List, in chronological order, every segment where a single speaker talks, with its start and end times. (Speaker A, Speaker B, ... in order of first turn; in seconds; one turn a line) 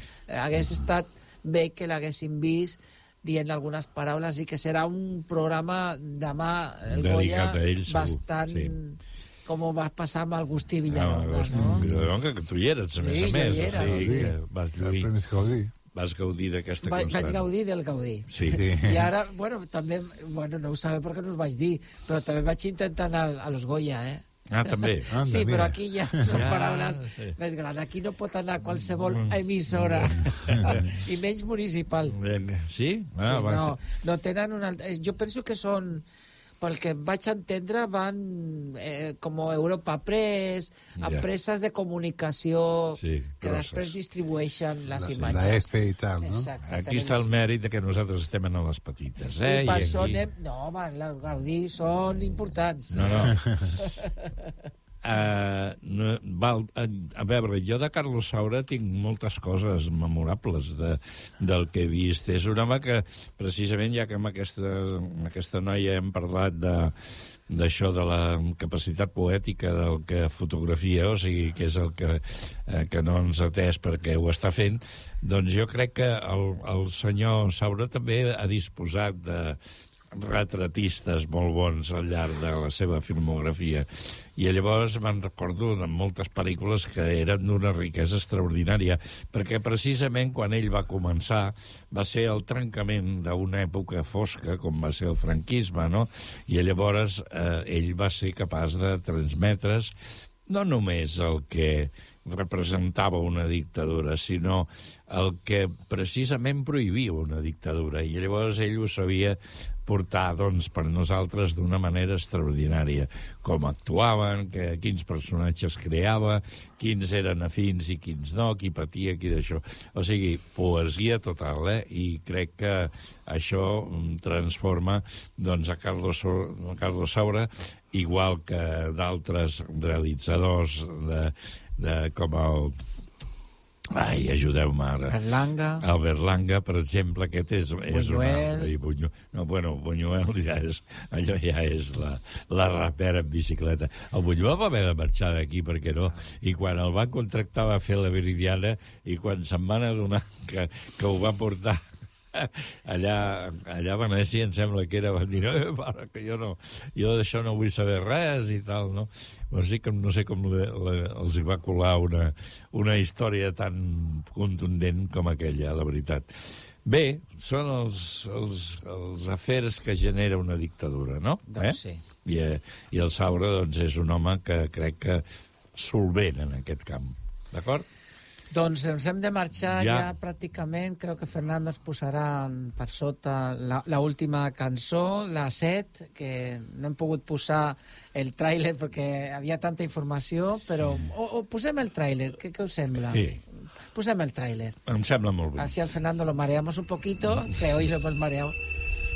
Speaker A: 0.3-11.8
Speaker B: 6.9-8.7
Speaker B: 10.9-15.1
Speaker C: 11.5-12.1
Speaker A: 13.0-14.2
Speaker C: 13.7-15.7
Speaker B: 15.9-17.4
Speaker A: 16.8-24.2
Speaker B: 18.3-18.6
Speaker C: 18.4-19.1
Speaker B: 24.5-25.1
Speaker C: 25.1-26.4
Speaker A: 25.2-32.1
Speaker B: 26.3-27.3
Speaker B: 29.0-30.9
Speaker C: 30.5-30.8
Speaker B: 32.1-33.8
Speaker A: 33.2-36.0
Speaker A: 36.6-45.7
Speaker B: 41.0-41.2
Speaker B: 43.0-43.9
Speaker C: 44.9-46.5
Speaker A: 46.2-47.3
Speaker B: 46.7-50.2
Speaker A: 49.4-53.0
Speaker B: 52.9-53.4
Speaker B: 55.0-79.6
Speaker B: 80.1-99.9
Speaker B: 100.5-132.8
Speaker B: 133.9-135.2
Speaker A: 135.1-135.8
Speaker B: 135.8-151.8
Speaker A: 137.9-138.7
Speaker B: 152.3-177.9
Speaker A: 171.5-172.0
Speaker A: 178.5-193.2
Speaker B: 179.7-180.1
Speaker B: 193.1-193.4
Speaker A: 193.9-194.8
Speaker B: 194.9-195.7
Speaker A: 195.6-198.5